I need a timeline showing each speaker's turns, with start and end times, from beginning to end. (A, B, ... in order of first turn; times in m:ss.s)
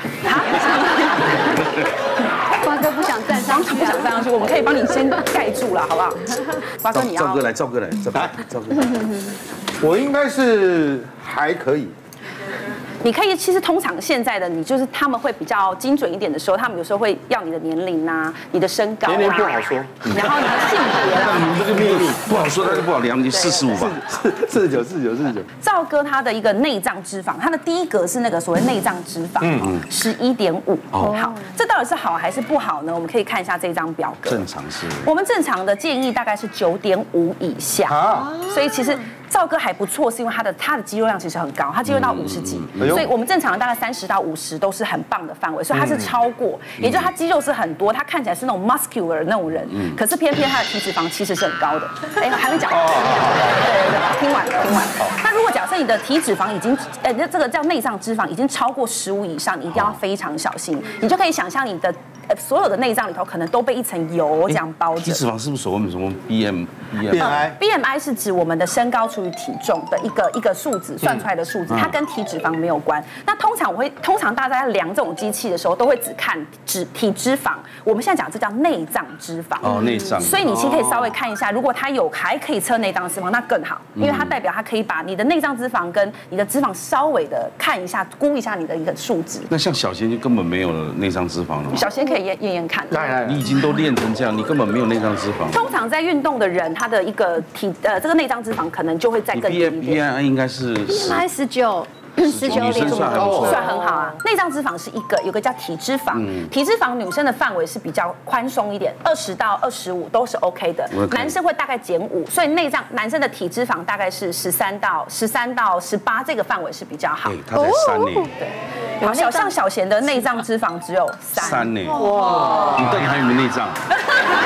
0:00.2-0:01.8 A
0:02.6-0:07.4 A
0:02.8-0:03.8 B
0:06.9-0:09.0 C
0:09.8-0:11.9 D
0:13.0-0:21.7 A
0:19.1-0:20.1 D
0:20.1-0:20.4 C
0:21.2-0:22.9 D
0:21.2-0:24.0 C
0:23.3-0:23.8 A
0:23.6-0:25.5 D
0:25.6-1:05.2 A
0:29.4-0:29.7 D
0:30.9-0:31.3 C
0:34.2-0:35.1 C
0:37.9-0:38.3 D
0:41.9-0:43.0 C
0:42.8-0:43.0 D
0:46.8-0:47.1 C
0:52.7-0:53.5 D
1:04.5-1:07.4 C
1:07.0-1:07.6 D
1:07.1-1:29.5 A
1:11.7-1:12.0 C
1:19.6-1:20.6 C
1:24.0-1:24.3 C
1:29.5-1:31.9 C
1:31.7-1:33.1 A
1:32.9-1:33.4 D
1:33.2-1:35.7 C
1:35.5-1:40.0 A
1:39.3-1:41.2 C
1:40.9-1:44.1 B
1:42.2-1:43.7 C
1:42.2-1:57.4 A
1:43.0-1:43.7 D
1:46.1-1:46.5 C
1:50.9-1:51.4 C
1:57.2-1:58.3 C
1:57.8-1:58.2 B
1:58.4-2:01.8 A
1:59.0-1:59.5 B
2:01.3-2:04.0 C
2:01.9-2:02.8 B
2:02.0-2:02.7 D